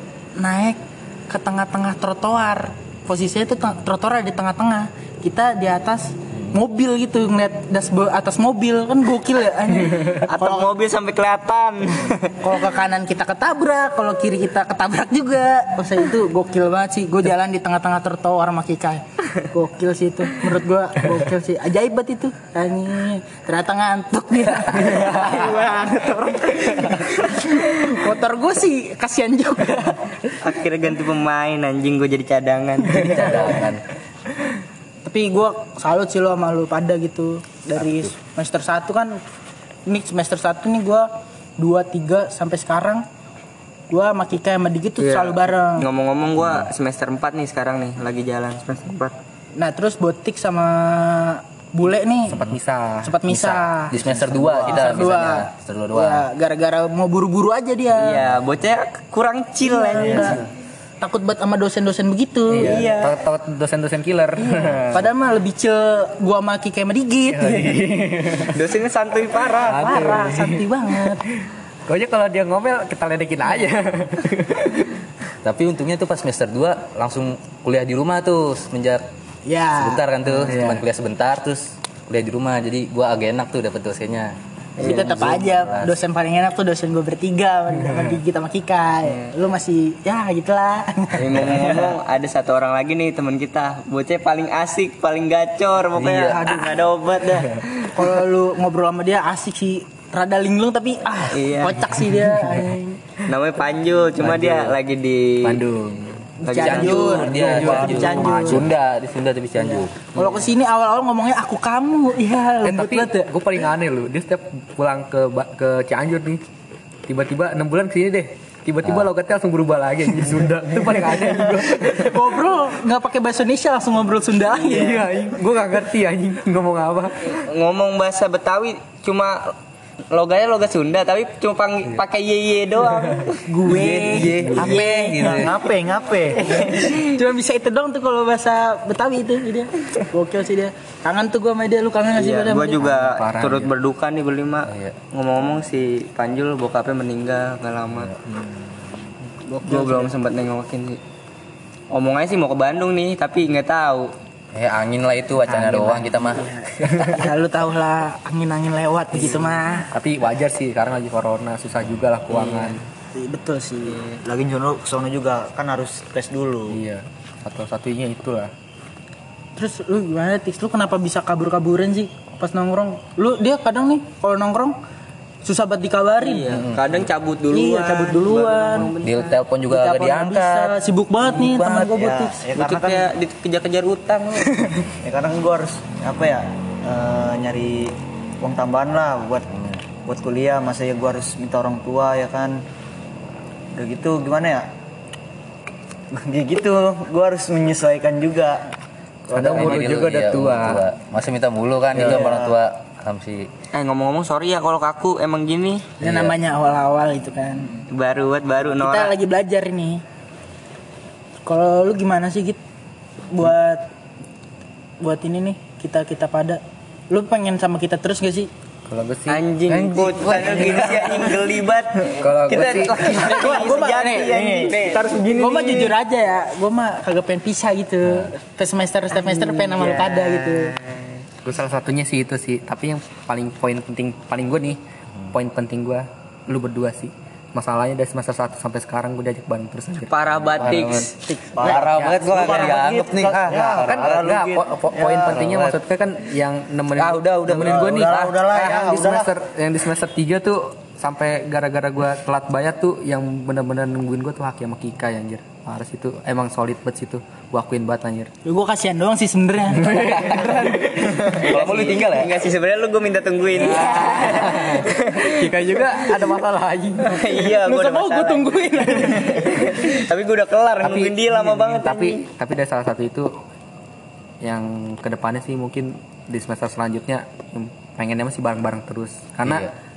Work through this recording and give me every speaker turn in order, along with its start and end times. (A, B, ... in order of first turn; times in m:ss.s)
0:00.4-0:10.7 A
0:10.2-0:12.3 B
0:12.4-0:30.3 A
0:30.4-0:33.5 B
0:33.0-0:33.8 C
0:33.2-0:33.5 A
0:35.0-0:39.2 A
0:39.8-0:43.0 A
0:43.9-0:45.9 A
0:45.0-0:49.1 B
0:49.6-0:52.4 A
0:52.3-0:53.2 D
0:53.0-0:58.2 A
0:53.3-0:56.3 C
0:54.0-0:55.0 E
0:57.9-1:00.4 B
0:59.6-1:00.5 A
1:00.1-1:00.4 D
1:01.0-1:02.9 A
1:02.5-1:05.1 D
1:02.6-1:03.2 B
1:04.4-1:07.9 A
1:07.3-1:08.6 D
1:08.5-1:09.8 B
1:09.7-1:10.6 D
1:09.7-1:11.2 A
1:11.2-1:15.0 D
1:15.4-1:19.0 C
1:19.4-1:20.0 A
1:19.7-1:25.9 C
1:20.3-1:20.8 D
1:24.8-1:31.9 A
1:24.8-1:25.2 B
1:29.0-1:29.3 B
1:31.1-1:37.8 B
1:35.9-1:36.7 C
1:37.9-1:43.2 A
1:41.3-1:41.8 B
1:43.2-1:45.6 B
1:44.2-1:44.7 D
1:45.4-1:48.7 D
1:46.4-1:48.7 A
1:46.4-1:47.3 B
1:46.6-1:50.1 C
1:49.6-1:53.3 A
1:52.6-1:56.4 D
1:57.1-2:02.1 D
1:58.8-1:59.1 C
2:01.4-2:05.1 A
2:04.6-2:07.3 D
2:07.3-2:09.5 B
2:10.1-2:13.4 B
2:13.5-2:15.5 A
2:13.7-2:15.5 C
2:14.4-2:14.8 D
2:15.2-2:16.5 E
2:16.4-2:17.0 B
2:16.6-2:22.8 A
2:22.1-2:28.1 B
2:22.8-2:23.7 D
2:24.6-2:25.0 C
2:27.9-2:28.8 C
2:29.4-2:30.1 A
2:29.6-2:31.0 B
2:31.9-2:34.1 B
2:34.5-2:36.4 C
2:35.9-2:39.9 A
2:37.0-2:37.2 D
2:39.9-2:42.8 D
2:42.4-2:42.7 B
2:43.1-2:44.0 A
2:44.0-2:46.8 E
2:46.7-2:48.5 D
2:49.6-2:54.8 A
2:55.4-2:56.6 A
2:56.1-2:59.4 B
2:56.5-2:57.0 C
2:57.5-2:58.9 A
2:59.0-3:02.0 C
2:59.7-3:02.4 A
3:01.9-3:03.1 E
3:02.5-3:04.5 B
3:05.0-3:09.5 E
3:10.0-3:12.6 E
3:13.7-3:14.7 E
3:16.1-3:18.7 E
3:19.3-3:19.8 E
3:19.3-3:23.5 C
3:19.3-3:20.8 D
3:21.9-3:22.6 E
3:22.0-3:22.2 D
3:23.7-3:25.9 B
3:26.0-3:26.4 C
3:26.0-3:27.7 A
3:27.9-3:29.1 B
3:28.8-3:30.0 A
3:31.4-3:32.6 A
3:33.3-3:33.8 A
3:35.0-3:38.5 A
3:38.9-3:39.4 D
3:39.3-3:45.1 B
3:39.7-3:41.3 C
3:42.2-3:43.4 D
3:43.1-3:44.7 A
3:44.8-3:46.0 D
3:45.3-3:50.7 A
3:49.1-3:51.2 B
3:51.4-3:54.8 D
3:55.3-4:01.1 D
4:00.1-4:01.2 B
4:00.4-4:01.1 C
4:01.6-4:05.4 E
4:01.6-4:04.2 C
4:01.8-4:02.2 D
4:03.7-4:18.3 D
4:05.2-4:05.8 C
4:06.9-4:08.2 C
4:07.5-4:09.3 E
4:18.4-4:21.4 A
4:19.9-4:20.8 D
4:21.3-4:22.3 C
4:21.5-4:25.6 B
4:23.5-4:27.2 D
4:27.0-4:32.2 B
4:27.3-4:29.9 A
4:30.8-4:33.3 D
4:34.4-4:39.7 D
4:39.4-4:39.7 C